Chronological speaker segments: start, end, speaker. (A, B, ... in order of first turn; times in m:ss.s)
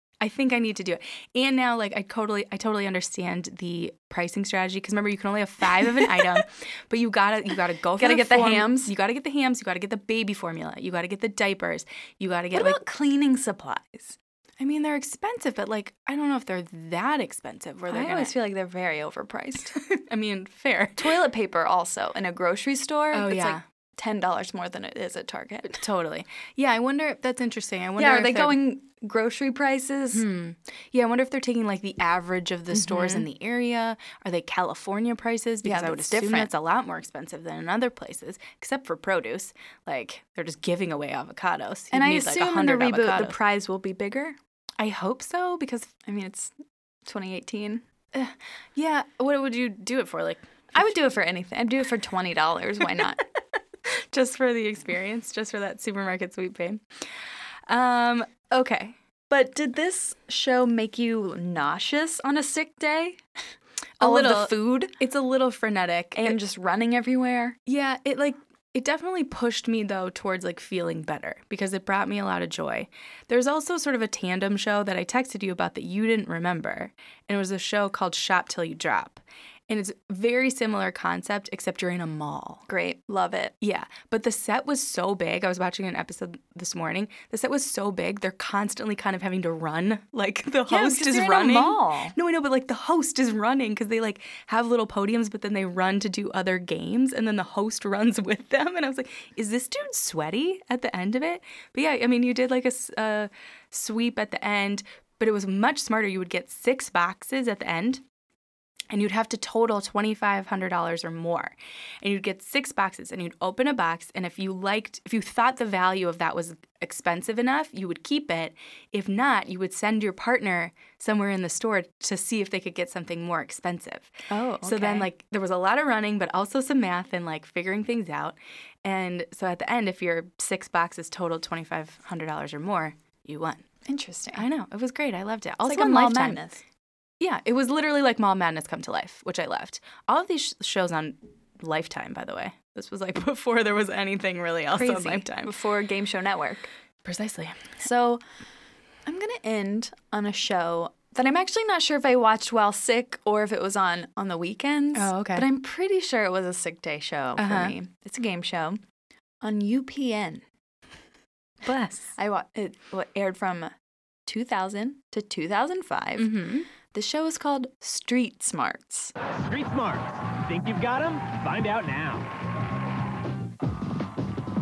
0:00.2-0:12.8 A
0:08.0-0:08.9 B
0:12.5-0:14.2 B
0:14.6-0:18.3 A
0:17.9-0:19.8 B
0:19.7-0:21.2 A
0:21.0-0:25.8 B
0:23.1-0:23.6 A
0:25.7-0:28.6 A
0:28.0-0:30.2 B
0:30.1-0:43.4 A
0:32.7-0:33.2 B
0:35.6-0:36.5 B
0:41.9-0:44.4 B
0:44.8-0:45.9 A
0:46.0-0:46.5 B
0:47.0-0:47.8 B
0:48.1-0:50.4 A
0:50.7-0:53.2 B
0:53.8-0:56.8 A
0:57.7-0:59.0 A
0:59.3-1:03.2 B
1:04.0-1:04.9 B
1:04.0-1:06.4 A
1:06.2-1:07.6 B
1:07.6-1:22.6 A
1:22.7-1:23.5 B
1:23.6-1:48.0 A
1:30.7-1:32.1 B
1:48.9-2:04.1 A
2:04.3-2:05.1 B
2:04.6-2:13.6 A
2:13.8-2:14.4 B
2:14.3-2:16.4 A
2:15.6-2:16.6 B
2:17.2-2:25.5 A
2:24.7-2:26.7 B
2:27.0-2:27.7 A
2:27.8-2:28.2 B
2:29.0-2:38.8 B
2:34.9-2:35.4 A
2:37.4-2:37.7 A
2:39.4-2:40.4 B
2:41.6-2:42.1 A
2:42.2-2:43.7 B
2:44.2-2:49.1 B
2:46.2-2:46.7 A
2:49.4-2:52.3 C